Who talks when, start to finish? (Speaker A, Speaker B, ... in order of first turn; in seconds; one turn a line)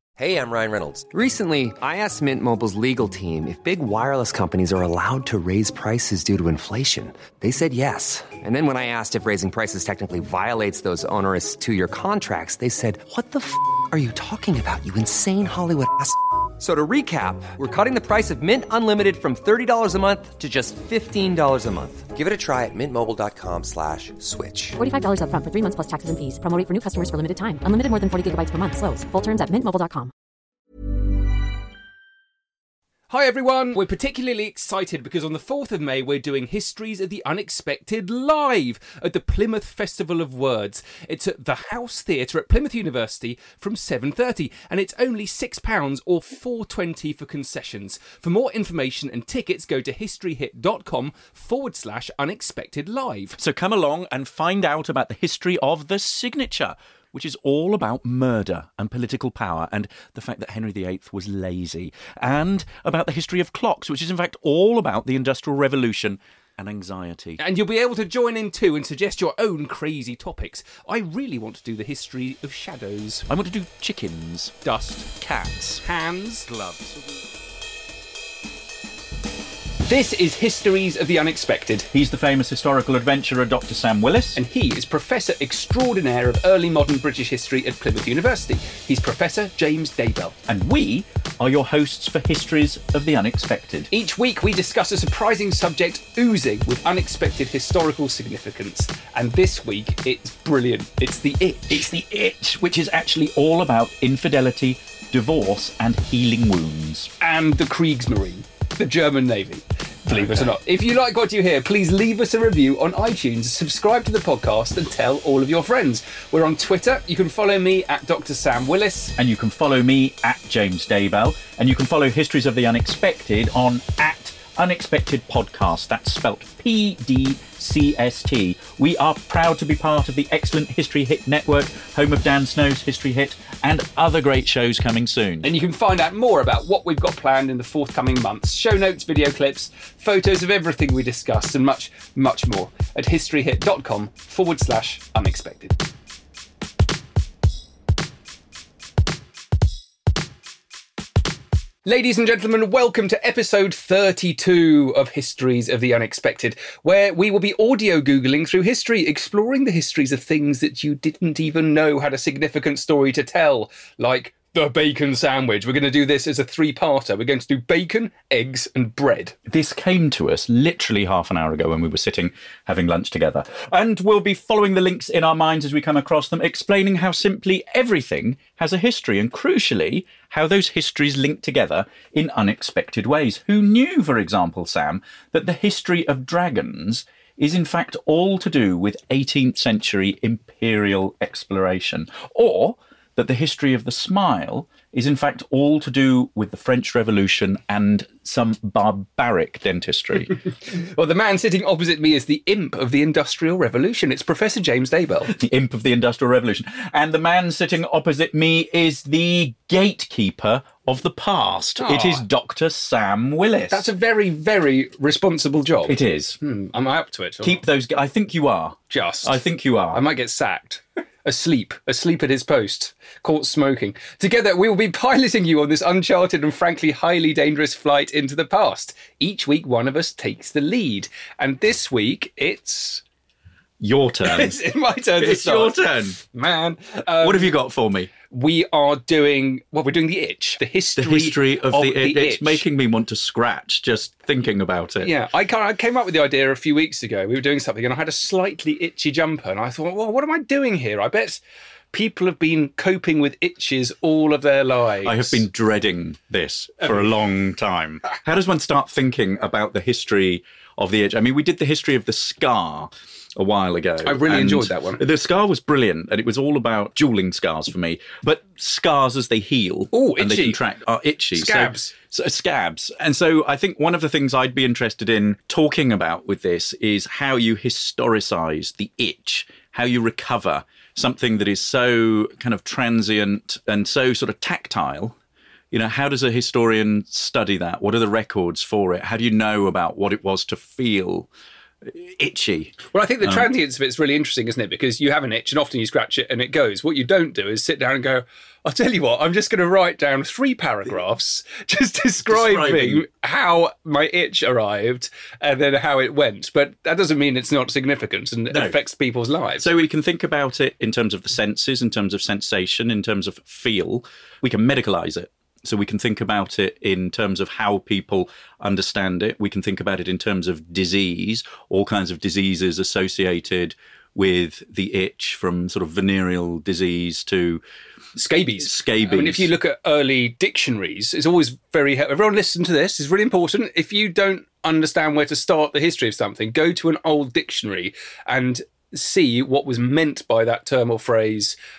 Speaker A: 0.2-24.8
Speaker B: 24.8-30.1
Speaker C: 33.1-53.4
Speaker D: 53.4-67.4
Speaker C: 67.4-73.3
Speaker D: 73.3-75.8
Speaker C: 74.6-75.0
Speaker C: 75.8-76.5
Speaker D: 76.5-77.0
Speaker C: 79.8-81.9
Speaker D: 81.9-84.4
Speaker C: 84.3-90.4
Speaker D: 90.5-93.9
Speaker C: 93.9-101.9
Speaker D: 101.7-107.1
Speaker C: 107.2-119.1
Speaker D: 110.1-110.5
Speaker D: 119.2-135.5
Speaker C: 135.4-145.8
Speaker C: 151.8-169.4
Speaker D: 169.5-200.3
Speaker C: 200.7-205.3
Speaker D: 205.3-213.9
Speaker C: 211.8-212.2
Speaker C: 213.7-217.6
Speaker D: 215.8-216.4
Speaker D: 217.4-220.0
Speaker C: 218.9-219.3
Speaker C: 219.9-233.0
Speaker D: 233.8-234.6
Speaker C: 234.2-237.5
Speaker D: 235.2-236.2
Speaker D: 237.2-238.1
Speaker C: 238.3-242.6
Speaker D: 240.9-245.1
Speaker C: 245.0-251.4
Speaker C: 251.9-255.4
Speaker D: 255.0-285.2
Speaker C: 256.8-257.1
Speaker C: 264.0-265.0
Speaker C: 269.9-270.6
Speaker C: 271.3-271.9
Speaker D: 285.7-291.3
Speaker D: 291.9-293.5
Speaker C: 292.9-309.7
Speaker D: 302.3-303.0
Speaker D: 308.5-308.8
Speaker D: 309.6-327.6
Speaker C: 328.1-341.6
Speaker D: 328.6-329.5